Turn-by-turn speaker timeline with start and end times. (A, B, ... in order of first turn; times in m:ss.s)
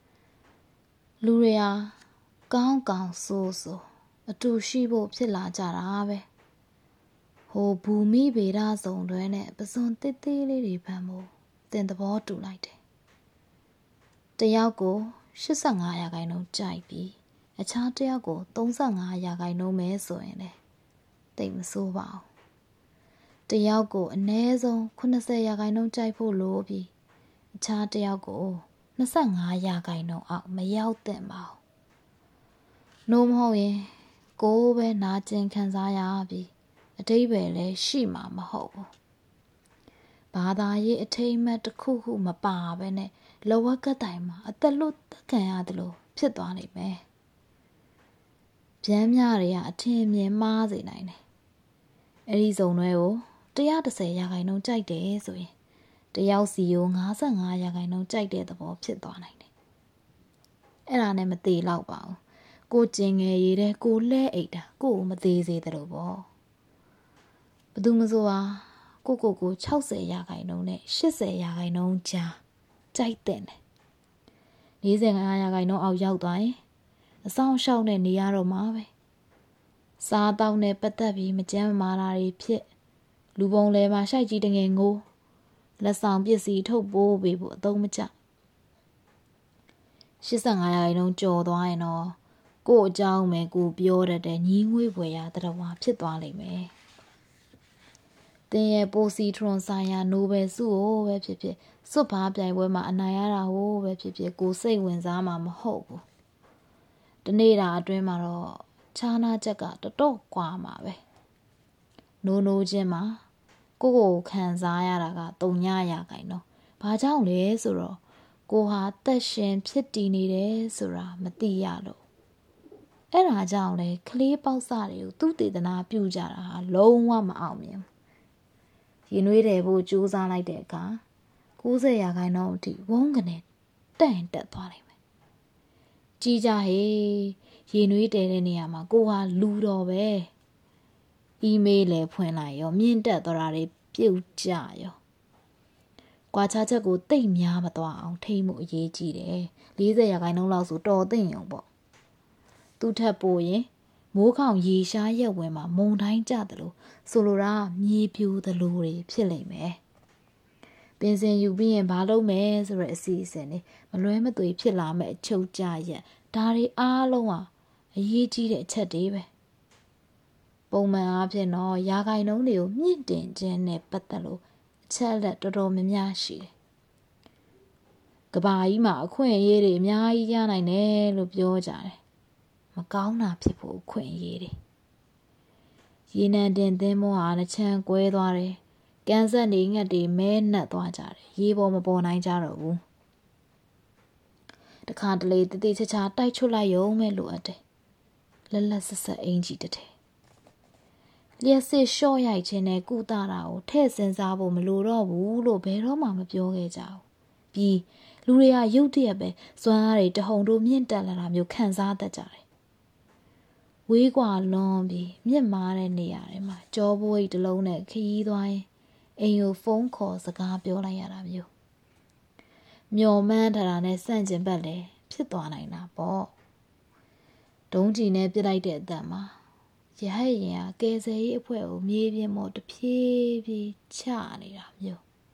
0:01.2-0:02.0 A
0:02.5-0:06.3 A
0:07.5-0:12.8 A
0:14.4-0:20.6 A
0:21.4-0:22.3 A
0:23.5-0:26.9 A
0:27.6-0:31.6 A
0:33.1-0:38.9 A
0:40.3-0:47.0 A
0:48.8-0:51.2 A
0:52.3-0:55.5 A
0:56.1-0:59.5 A
1:00.9-1:06.3 A
1:07.8-1:12.4 A
1:12.9-1:13.6 A
1:14.8-1:16.6 A
1:17.2-1:18.9 A
1:20.0-1:22.7 A
1:23.4-1:25.0 A
1:25.8-1:28.1 A
1:30.2-1:36.7 A
1:38.5-1:46.0 A
1:47.2-1:51.0 A
1:52.2-1:53.2 A
1:53.8-2:02.0 A
2:03.1-2:07.8 A
2:09.1-2:11.0 A
2:11.6-2:13.4 A
2:14.0-2:14.9 A
2:16.2-2:20.3 A
2:21.4-2:25.0 A
2:26.3-2:31.7 A
2:32.8-2:39.8 A
2:41.0-2:49.3 A
2:50.7-2:56.5 A
2:58.3-3:02.0 A
3:02.8-3:04.5 A
3:06.1-3:12.8 A
3:14.9-3:17.6 A
3:18.5-3:19.9 A
3:21.4-3:32.4 A
3:33.9-3:38.7 A
3:39.2-3:41.5 A
3:42.9-3:46.3 A
3:47.7-3:49.4 A
3:50.0-3:55.0 A